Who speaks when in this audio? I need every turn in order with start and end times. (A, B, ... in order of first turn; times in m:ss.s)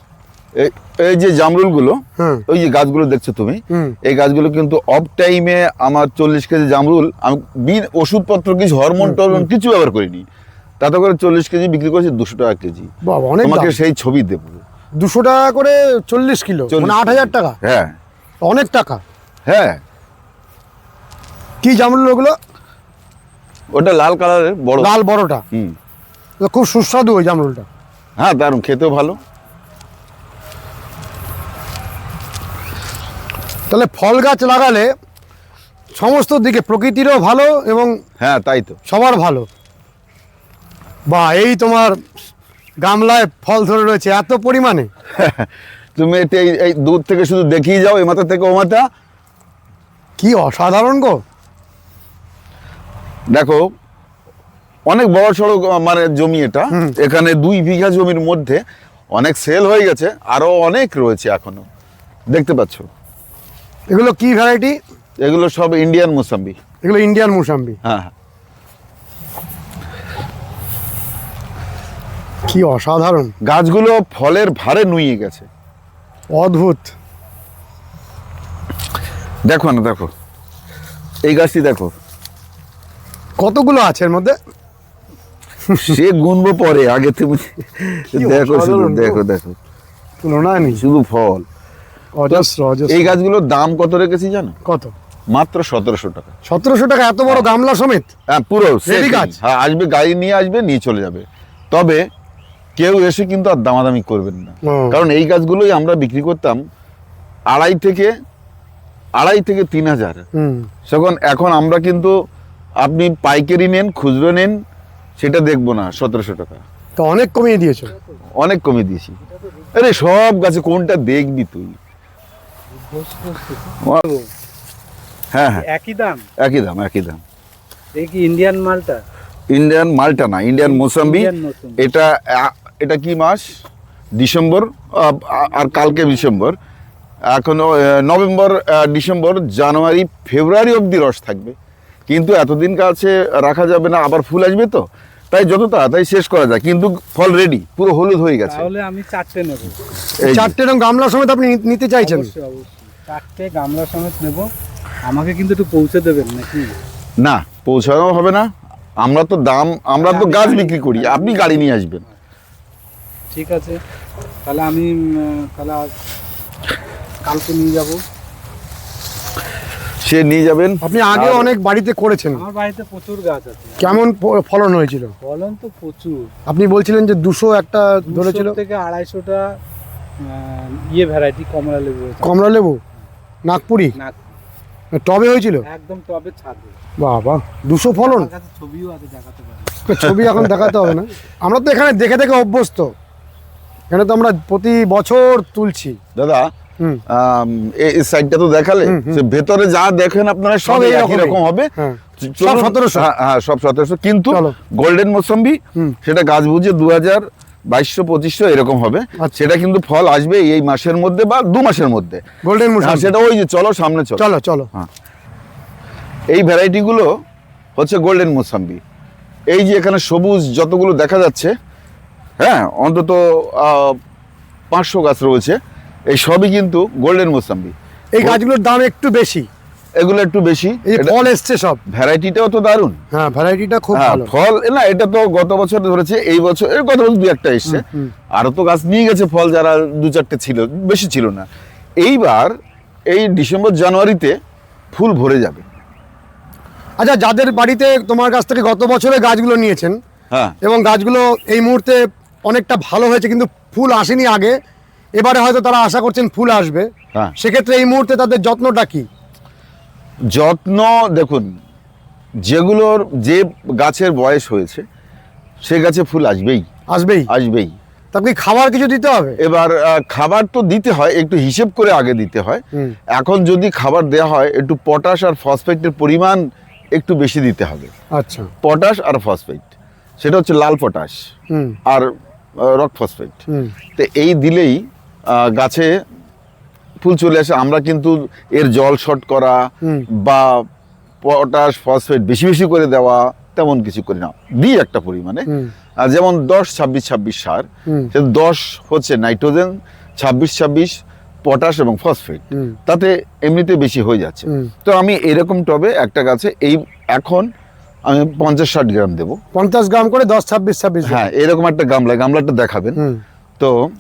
0:00.6-0:10.2 A
0:02.2-0:02.4 B
0:09.0-0:09.4 B
0:10.8-0:12.9 A
0:13.1-0:13.8 B
0:13.4-0:14.6 A
0:15.0-0:17.6 B
0:16.7-0:18.0 A
0:18.4-0:19.0 B
0:19.5-0:19.8 A
0:21.6-0:22.4 B
0:23.7-0:24.9 A
0:24.8-0:25.4 B
0:26.4-0:27.7 B
0:28.2-0:29.2 A
0:33.7-0:34.9 B
0:36.0-0:37.9 B
0:38.2-0:38.8 A
0:38.9-0:39.5 B
0:41.1-0:42.0 B
0:42.8-0:44.9 B
0:45.2-0:48.8 A
0:50.2-0:51.2 B
0:53.3-0:53.6 A
0:54.9-0:58.6 A
0:59.1-1:01.6 A
1:02.3-1:02.9 A
1:03.9-1:04.8 B
1:05.2-1:06.6 A
1:06.8-1:07.8 B
1:07.8-1:08.1 A
1:12.5-1:13.3 B
1:13.4-1:15.5 A
1:16.3-1:17.0 B
1:19.5-1:20.1 A
1:21.2-1:21.9 A
1:23.4-1:24.4 B
1:25.7-1:26.0 B
1:25.8-1:29.6 A
1:28.1-1:29.2 B
1:30.2-1:30.8 B
1:30.6-1:31.4 A
1:32.2-1:33.2 B
1:32.3-1:34.6 A
1:34.6-1:34.9 B
1:35.3-1:36.3 A
1:36.5-1:38.1 B
1:38.3-1:42.0 A
1:38.9-1:39.4 B
1:42.8-1:46.6 A
1:44.7-1:45.0 B
1:47.5-1:48.1 A
1:49.2-1:50.2 A
1:50.4-1:50.7 B
1:50.9-1:52.1 A
1:52.8-1:54.5 A
1:55.2-1:56.6 A
1:57.0-1:57.9 B
1:58.4-1:59.2 A
1:59.7-2:01.8 A
2:02.7-2:04.3 C
2:05.3-2:05.7 A
2:05.6-2:06.2 C
2:06.4-2:07.2 A
2:07.9-2:09.0 C
2:09.5-2:13.6 A
2:10.6-2:11.9 C
2:14.2-2:16.6 A
2:17.3-2:21.6 A
2:22.1-2:28.7 A
2:28.5-2:29.8 C
2:30.2-2:30.6 A
2:30.2-2:32.3 B
2:32.0-2:34.5 C
2:35.0-2:36.8 C
2:37.2-2:38.5 A
2:39.0-2:42.0 A
2:40.0-2:41.7 C
2:43.3-2:43.8 C
2:44.4-2:45.9 C
2:47.2-2:48.0 C
2:50.0-2:51.5 A
2:50.8-2:52.4 B
2:52.4-2:54.0 C
2:53.8-2:55.1 B
2:55.2-2:56.3 C
2:56.5-2:58.6 B
2:58.1-2:59.6 C
3:00.2-3:02.4 C
3:02.2-3:02.8 B
3:03.5-3:04.0 B
3:04.9-3:05.7 B
3:05.7-3:06.8 C
3:07.0-3:08.3 B
3:08.0-3:09.9 C
3:09.9-3:12.9 B
3:10.2-3:10.7 A
3:13.9-3:16.0 B
3:16.2-3:16.5 A
3:17.1-3:32.2 A
3:18.9-3:19.2 B
3:20.6-3:23.1 B
3:24.3-3:24.6 B
3:32.4-3:33.1 B
3:32.8-3:34.9 A
3:34.2-3:34.7 B
3:36.3-3:37.1 A
3:37.8-3:38.8 A
3:39.5-3:41.5 A
3:42.4-3:44.0 A
3:44.7-3:45.6 A
3:46.1-3:48.4 A
3:48.1-3:49.5 B
3:50.0-3:51.2 A
3:50.8-3:51.8 B
3:51.9-3:53.0 A
3:53.1-3:54.3 B
3:53.9-4:01.5 A
3:57.7-3:58.1 B
4:02.0-4:02.5 A
4:03.1-4:04.4 A
4:04.9-4:05.6 A
4:07.0-4:10.0 B
4:10.6-4:14.6 B
4:15.2-4:19.1 B
4:20.3-4:21.5 A
4:22.4-4:24.8 A
4:25.6-4:26.6 A
4:26.9-4:27.3 B
4:27.3-4:27.7 A
4:28.1-4:29.4 B
4:29.4-4:32.6 A
4:33.1-4:36.4 A
4:37.0-4:37.9 A
4:38.2-4:38.5 B
4:38.6-4:39.7 A
4:40.2-4:41.2 A
4:41.5-4:41.8 B
4:42.6-4:43.4 A
4:43.5-4:43.8 B
4:44.0-4:44.8 A
4:45.3-4:45.9 A
4:47.0-4:49.6 A
4:50.2-4:50.6 A
4:51.2-4:55.5 A
4:55.5-4:55.7 B
4:56.0-5:00.9 A
4:57.9-4:58.1 B
5:01.4-5:07.5 A
5:08.1-5:09.4 A
5:09.5-5:11.2 B
5:11.0-5:13.0 A
5:13.0-5:13.2 B